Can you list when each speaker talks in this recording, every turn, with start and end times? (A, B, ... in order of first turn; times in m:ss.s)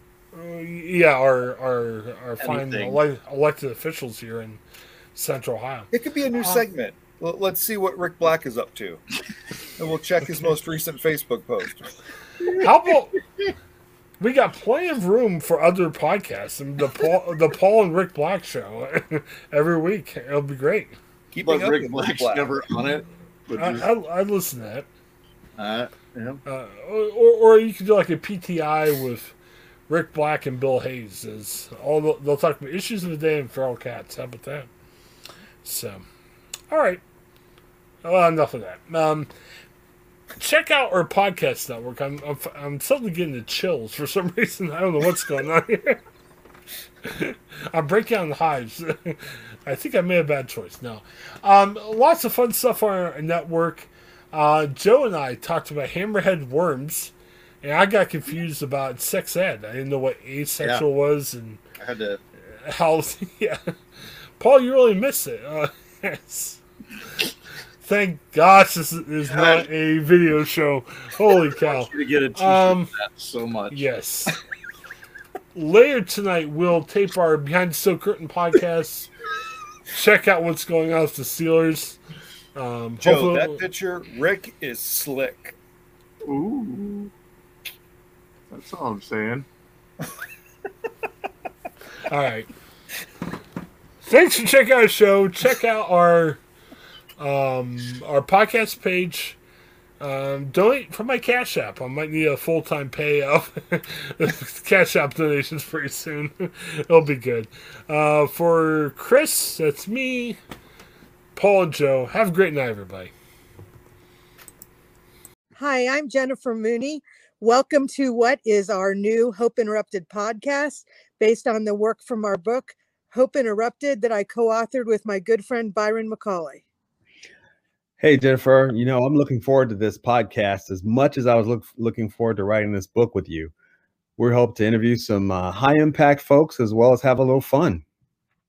0:00.3-0:04.6 A
0:02.4-0:03.0 B
0:05.1-0:05.9 A
0:05.9-0:09.0 C
0:09.8-0:11.9 C
0:12.4-0:12.7 B
0:12.6-0:13.2 A
0:14.2-0:21.0 A
0:21.3-0:22.5 C
0:21.4-0:23.8 B
0:23.6-0:24.9 A
0:25.6-0:26.4 B
0:26.4-0:29.3 A
0:29.9-0:34.7 A
0:35.6-0:36.0 A
0:36.7-0:37.0 A
0:38.0-0:39.3 A
0:40.4-0:46.0 A
0:47.0-0:57.1 A
0:57.6-1:01.6 A
1:01.8-1:02.2 B
1:02.5-1:03.7 A
1:04.4-1:06.6 A
1:07.8-1:12.9 A
1:09.3-1:09.7 B
1:11.5-1:13.8 B
1:13.7-1:14.4 A
1:15.5-1:19.1 A
1:19.9-1:22.0 A
1:22.5-1:23.6 A
1:23.0-1:25.6 C
1:26.2-1:27.1 B
1:28.5-1:29.4 B
1:32.1-1:32.5 A
1:34.0-1:36.4 A
1:37.2-1:39.4 A
1:40.0-1:50.4 A
1:51.4-1:53.1 A
1:55.6-2:06.6 D
2:08.0-2:13.5 E
2:14.2-2:17.8 E